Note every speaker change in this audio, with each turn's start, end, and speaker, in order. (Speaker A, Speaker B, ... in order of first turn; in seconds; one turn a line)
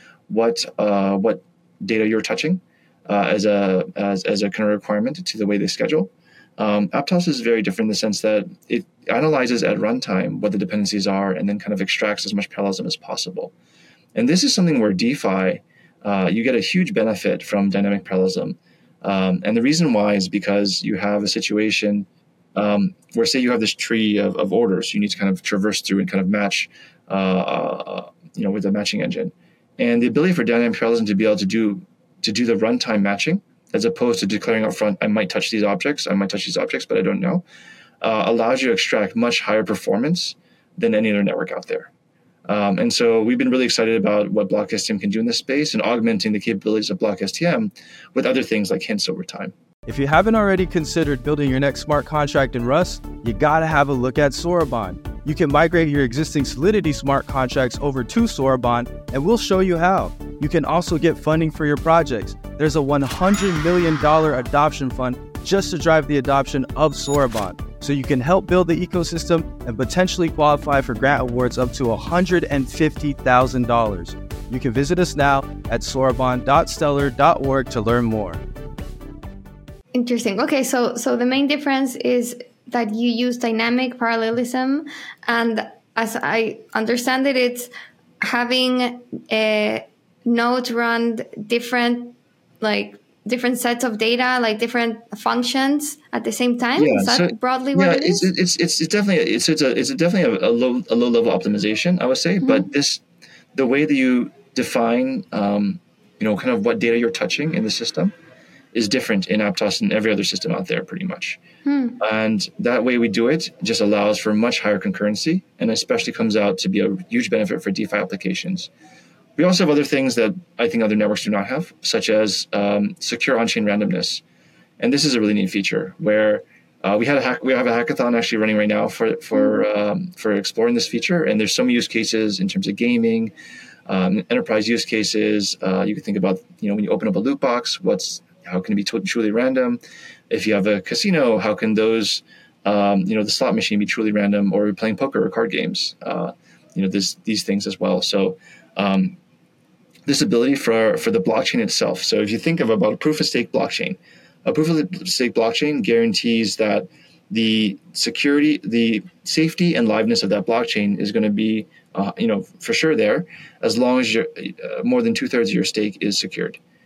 Speaker A: 0.3-13.5
Speaker A: 14.2-37.5
Speaker A: 38.0-41.9
Speaker A: 42.5-49.5
Speaker B: 49.9-78.4
Speaker C: 79.9-87.7
Speaker C: 88.2-98.3
Speaker A: 96.8-103.0
Speaker C: 102.4-102.7
Speaker A: 103.5-108.1
Speaker A: 108.7-111.4
Speaker C: 111.7-112.0
Speaker A: 112.0-118.7
Speaker A: 119.4-124.2
Speaker A: 124.8-133.3
Speaker A: 133.9-149.2
Speaker A: 150.1-166.6